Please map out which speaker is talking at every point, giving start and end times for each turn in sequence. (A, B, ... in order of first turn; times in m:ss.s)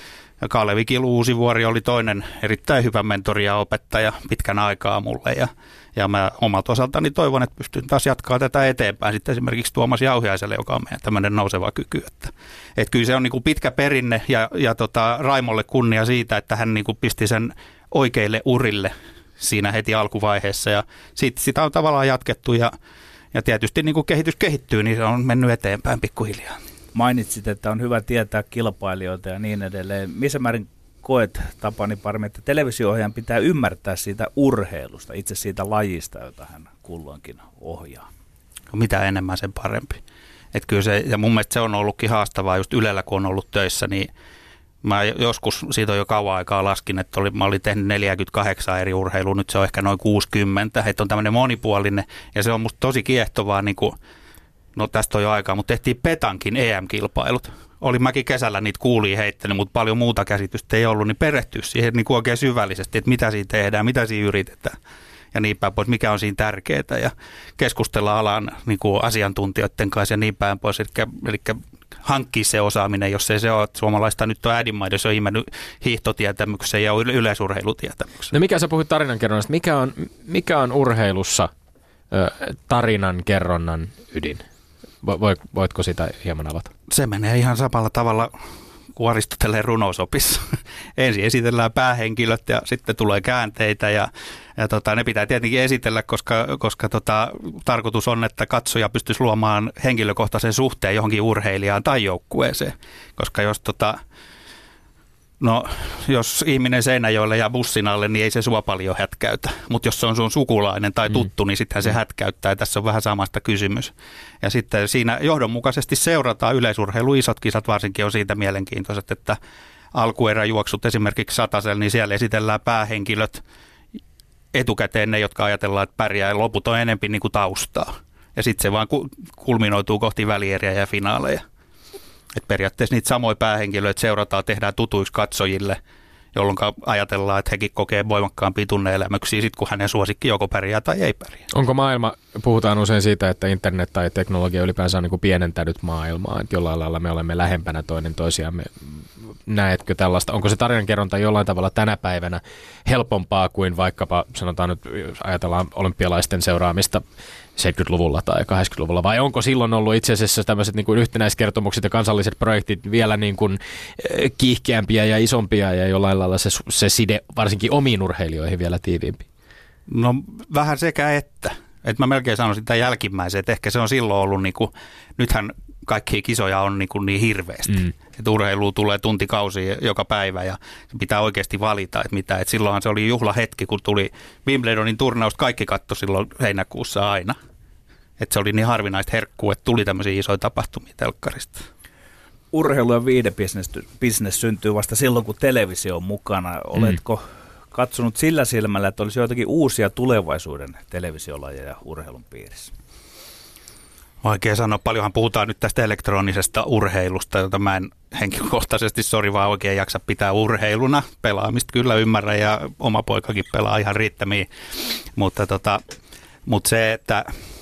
0:00.4-0:22.7 A
0:23.3-0:26.6 A
0:26.9-0:38.1 B
0:38.7-0:40.0 A
0:40.5-0:44.1 A
0:44.8-0:54.0 A
0:54.8-1:04.8 A
1:05.3-1:18.3 A
1:18.3-1:21.5 C
1:22.1-1:24.4 C
1:25.0-1:26.7 C
1:26.9-1:28.3 A
1:29.0-1:44.0 A
1:45.4-1:59.4 A
1:59.9-2:03.4 A
2:04.5-2:11.4 A
2:12.3-2:15.8 A
2:16.3-2:21.5 A
2:21.5-2:37.0 C
2:37.6-2:49.3 C
2:49.9-3:07.4 A
3:08.2-3:11.7 A
3:12.5-3:22.7 B
3:24.2-3:35.8 A
3:36.5-3:37.3 A